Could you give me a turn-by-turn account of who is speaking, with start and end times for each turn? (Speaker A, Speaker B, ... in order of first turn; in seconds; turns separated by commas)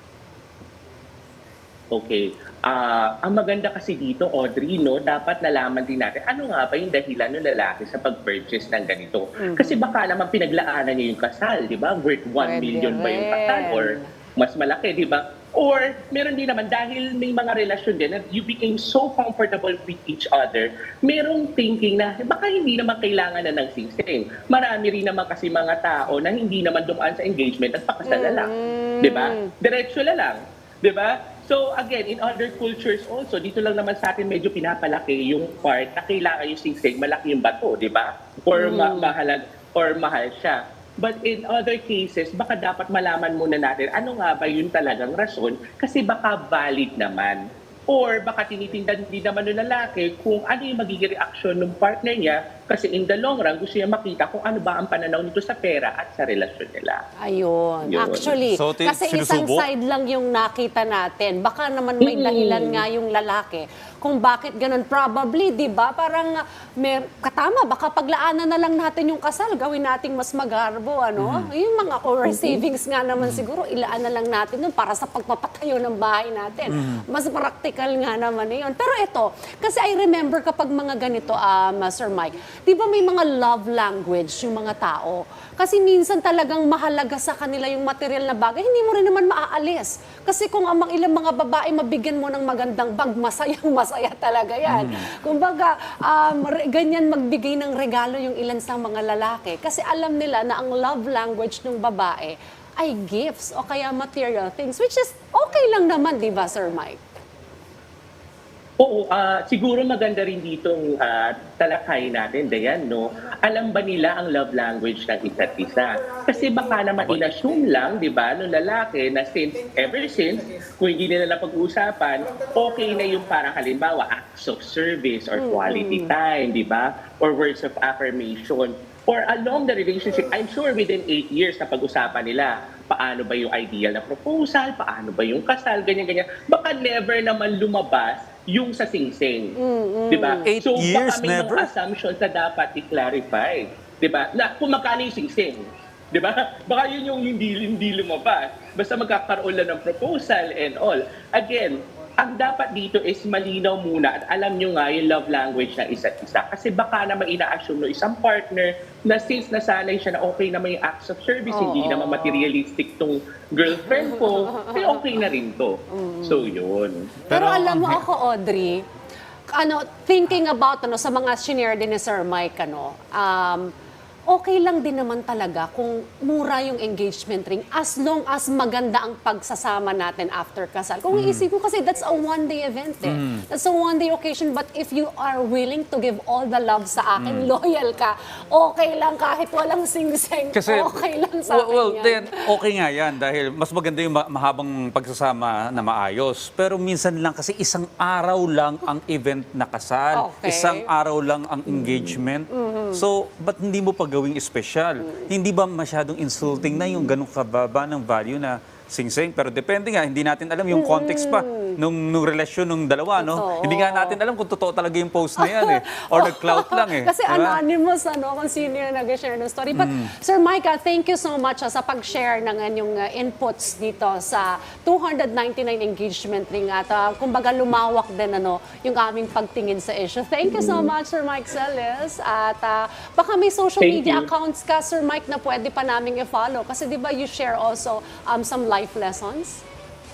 Speaker A: 1.9-28.5, Speaker B: 9.4-9.8, Speaker B: 12.4-14.1, Speaker B: 28.1-29.5, Speaker A: 29.0-57.0, Speaker B: 38.5-39.1, Speaker B: 57.2-107.0, Speaker A: 57.8-58.4, Speaker C: 58.5-59.7, Speaker A: 62.0-62.8, Speaker C: 71.2-71.5, Speaker A: 72.3-72.6, Speaker C: 73.2-73.4, Speaker C: 76.7-77.0, Speaker C: 94.7-95.0, Speaker A: 108.8-139.5, Speaker B: 125.3-126.1, Speaker B: 139.6-140.5, Speaker A: 140.1-167.2, Speaker C: 140.4-141.7, Speaker B: 161.5-162.5, Speaker B: 163.7-165.2, Speaker B: 165.9-166.5, Speaker C: 167.3-168.0, Speaker B: 167.3-168.8, Speaker B: 169.5-173.7, Speaker B: 174.3-192.4, Speaker C: 181.1-181.5, Speaker C: 183.0-183.4, Speaker C: 187.2-187.5, Speaker C: 190.5-217.6, Speaker B: 200.1-200.9, Speaker B: 202.5-203.0, Speaker B: 210.7-211.8, Speaker B: 213.1-214.2, Speaker B: 215.4-239.6, Speaker C: 219.7-220.1, Speaker A: 230.5-230.9, Speaker A: 233.8-234.3